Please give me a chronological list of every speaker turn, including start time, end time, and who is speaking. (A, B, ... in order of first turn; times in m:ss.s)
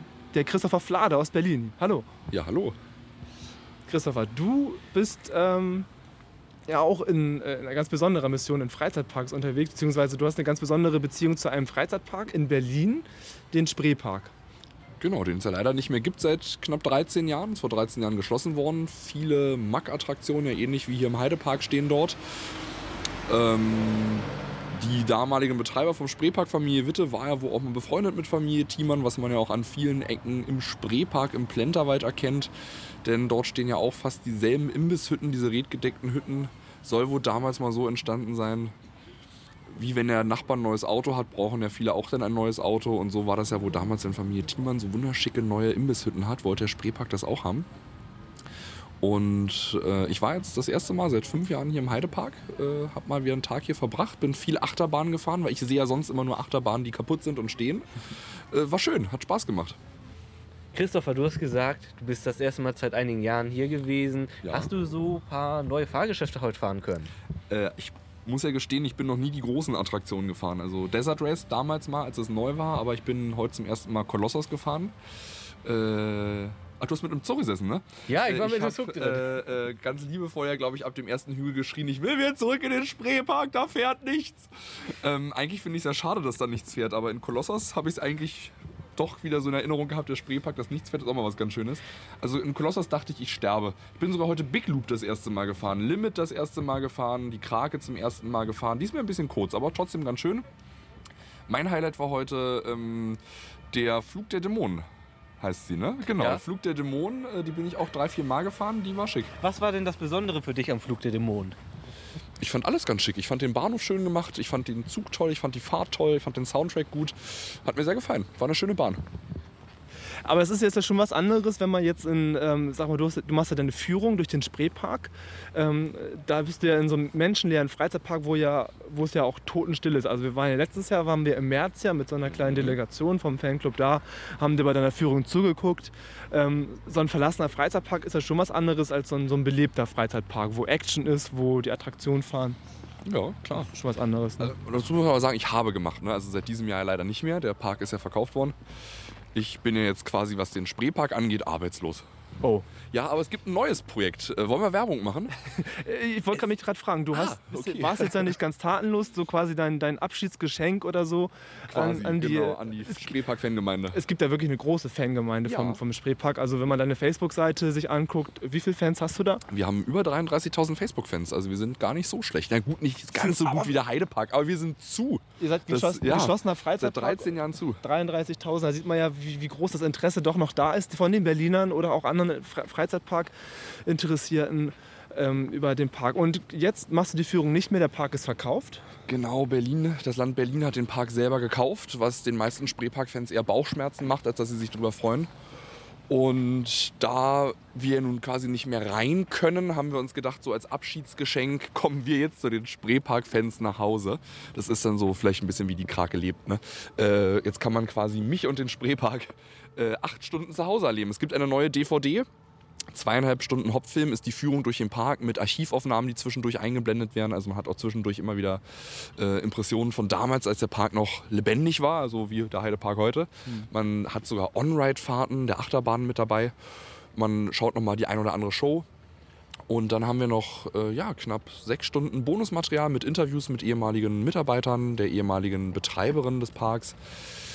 0:00.3-0:02.1 A
0:02.3-0:02.8 B
0:03.9-0:05.9 A
0:06.7-0:14.3 A
0:15.0-0:22.2 B
0:23.3-0:32.5 B
0:33.0-0:38.7 B
0:39.7-0:47.7 B
0:49.0-0:57.9 B
0:58.5-0:59.8 B
1:00.7-1:07.1 C
1:04.4-1:04.7 B
1:07.5-1:14.9 B
1:15.6-1:40.4 B
1:18.1-1:19.4 C
1:41.5-1:43.2 B
1:43.7-1:44.9 B
1:45.4-1:49.3 B
1:46.1-1:46.4 C
1:49.4-1:51.6 C
1:52.4-1:59.0 B
2:00.2-2:22.6 A
2:12.4-2:12.8 B
2:23.1-2:23.7 B
2:23.5-2:24.5 A
2:24.4-2:28.5 B
2:29.3-2:32.1 B
2:32.9-2:35.4 B
2:35.5-2:43.0 A
2:37.1-2:38.3 B
2:41.7-2:44.0 B
2:43.9-2:49.4 A
2:45.4-2:45.8 B
2:49.5-2:57.8 B
2:53.2-2:53.7 A
2:55.4-3:08.8 A
3:09.1-3:15.3 B
3:16.1-3:32.3 B
3:32.9-3:46.5 B
3:47.2-3:48.9 B
3:49.7-3:57.0 B